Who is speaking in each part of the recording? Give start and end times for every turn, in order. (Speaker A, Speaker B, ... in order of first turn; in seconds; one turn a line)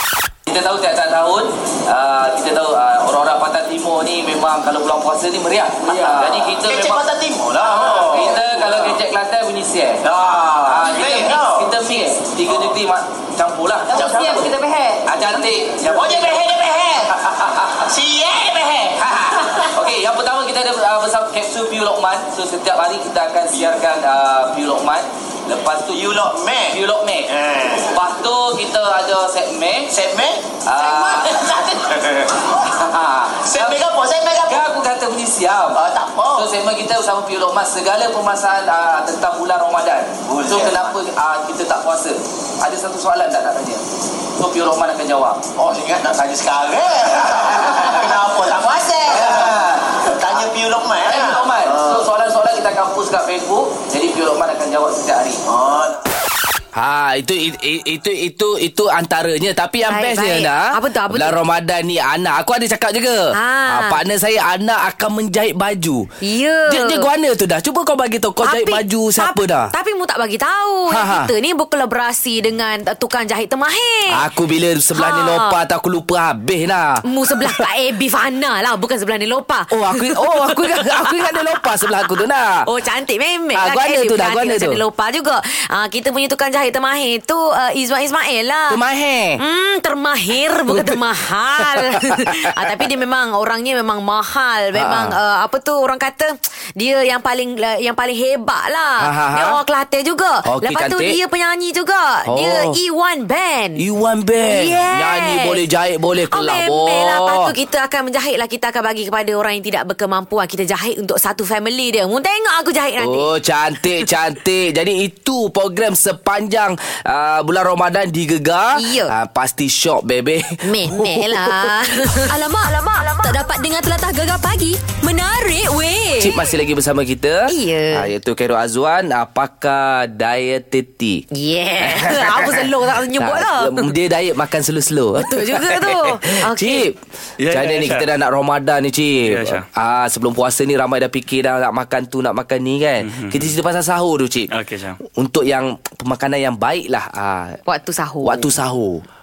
Speaker A: 0.5-7.1
Speaker B: 5.9-9.0
Speaker A: 7.6-10.1
Speaker B: 10.0-11.8
Speaker A: 10.6-17.9
Speaker B: 13.9-14.6
Speaker B: 15.3-17.2
Speaker B: 17.8-18.8
Speaker A: 18.6-26.2
Speaker B: 25.9-27.9
Speaker A: 26.7-29.9
Speaker B: 29.9-32.5
Speaker A: 30.6-32.0
Speaker A: 32.6-33.8
Speaker B: 33.4-34.7
Speaker A: 34.5-35.8
Speaker B: 35.7-36.5
Speaker A: 36.3-45.5
Speaker B: 40.2-40.9
Speaker B: 45.5-52.0
Speaker A: 47.4-47.9
Speaker A: 49.0-50.4
Speaker A: 51.0-55.5
Speaker B: 55.5-56.0
Speaker A: 56.7-66.1
Speaker C: 59.9-61.4
Speaker C: 63.3-64.0
Speaker C: 66.2-67.1
Speaker A: 66.7-69.7
Speaker C: 68.4-74.2
Speaker A: 70.9-71.3
Speaker A: 74.1-77.7
Speaker C: 75.0-75.6
Speaker C: 77.0-88.8
Speaker A: 79.7-82.7
Speaker A: 83.5-84.8
Speaker A: 88.7-89.4
Speaker C: 89.4-103.8
Speaker A: 90.7-91.0
Speaker A: 91.6-92.7
Speaker A: 94.8-95.2
Speaker A: 99.0-99.6
Speaker A: 100.5-101.2
Speaker A: 102.3-102.8
Speaker A: 103.8-107.5
Speaker C: 104.5-105.6
Speaker C: 106.3-113.3
Speaker A: 113.0-121.8
Speaker C: 118.8-119.1
Speaker C: 120.6-122.3
Speaker D: 122.2-126.4
Speaker A: 126.2-131.2
Speaker C: 127.5-128.1
Speaker C: 131.3-133.9
Speaker A: 131.8-144.5
Speaker C: 135.2-136.9
Speaker E: 137.4-138.1
Speaker E: 139.3-139.7
Speaker E: 143.0-143.6
Speaker E: 144.5-145.0
Speaker A: 145.1-147.6
Speaker C: 147.7-148.5
Speaker A: 148.2-149.0